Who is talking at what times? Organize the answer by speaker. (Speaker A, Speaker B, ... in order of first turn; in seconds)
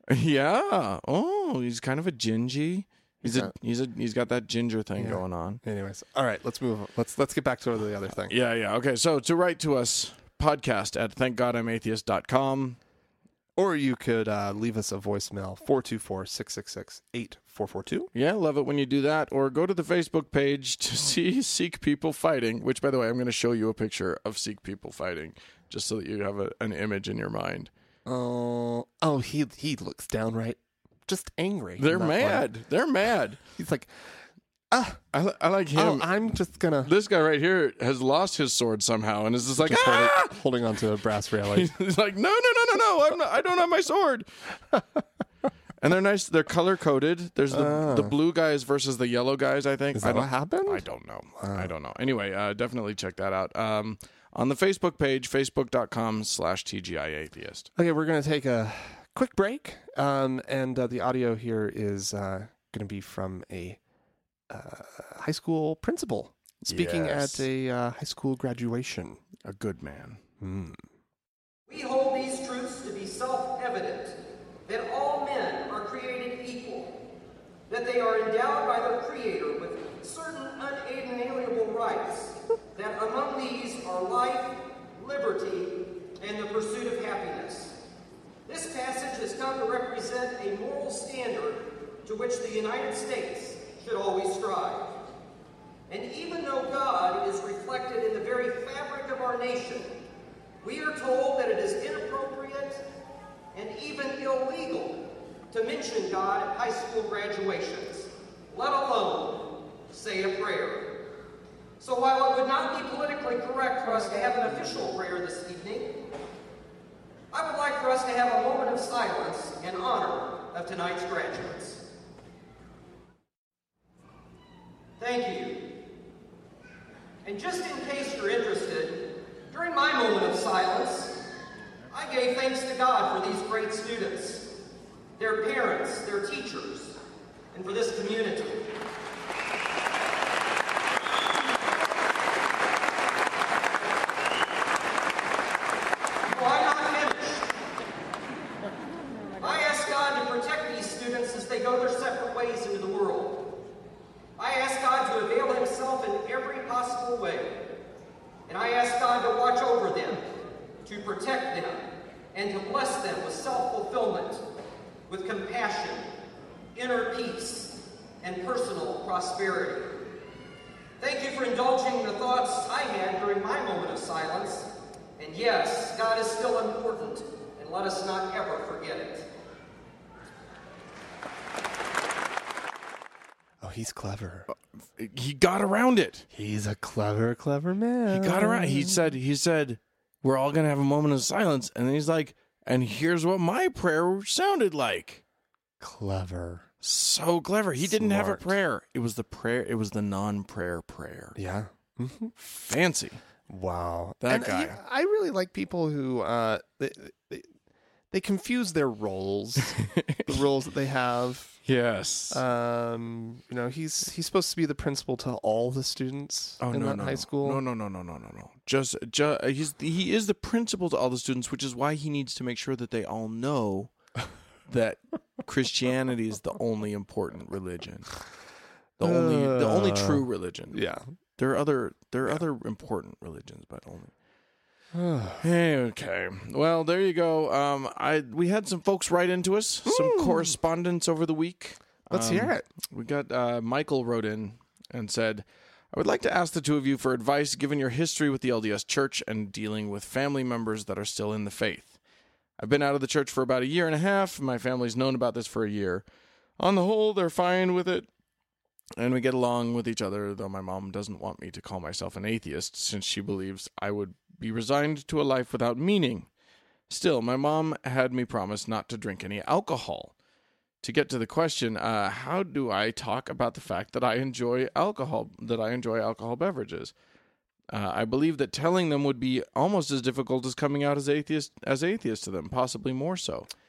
Speaker A: 0.1-5.6, 8.3-12.8, 18.1-27.7, 31.8-33.4, 35.1-36.1, 36.8-40.4, 41.5-44.3, 45.8-57.7, 66.6-67.5, 69.4-70.2, 184.5-186.3, 188.1-195.2, 196.8-201.4, 202.4-203.2, 204.2-204.8, 209.8-210.4, 211.7-212.4, 216.6-223.9, 224.7-228.1, 229.0-230.8, 231.4-234.1, 235.4-252.0, 252.6-256.1, 256.6-258.1, 259.0-266.3, 266.9-270.1, 270.8-276.9, 277.7-283.5
Speaker B: 3.2-3.5, 5.0-8.3, 13.6-18.1, 28.1-32.5, 33.6-34.1, 34.7-35.0, 35.7-36.9, 39.6-41.7, 47.5-48.1, 50.0-50.9, 51.4-51.7, 57.8-63.8, 64.5-69.2, 70.4-70.8, 183.6-184.5, 186.3-189.0, 195.8-196.7, 197.8-198.5, 201.4-202.3, 203.5-207.5, 208.1-211.6, 212.3-217.6, 229.0-231.0, 234.9-235.4, 239.9-240.6, 242.1-242.7
Speaker C: 71.7-76.9, 77.7-87.7, 88.5-94.9, 95.9-99.9, 100.6-102.8, 103.5-105.0, 105.5-110.9, 111.8-115.9, 117.3-121.8, 125.0-125.6, 127.2-131.1, 131.9-134.5, 135.2-137.0, 137.5-138.7, 146.3-147.5, 149.4-153.4, 154.4-157.5, 158.5-160.2, 160.8-161.8, 162.3-164.4, 165.1-166.1, 166.8-169.9, 171.0-174.7, 175.2-179.3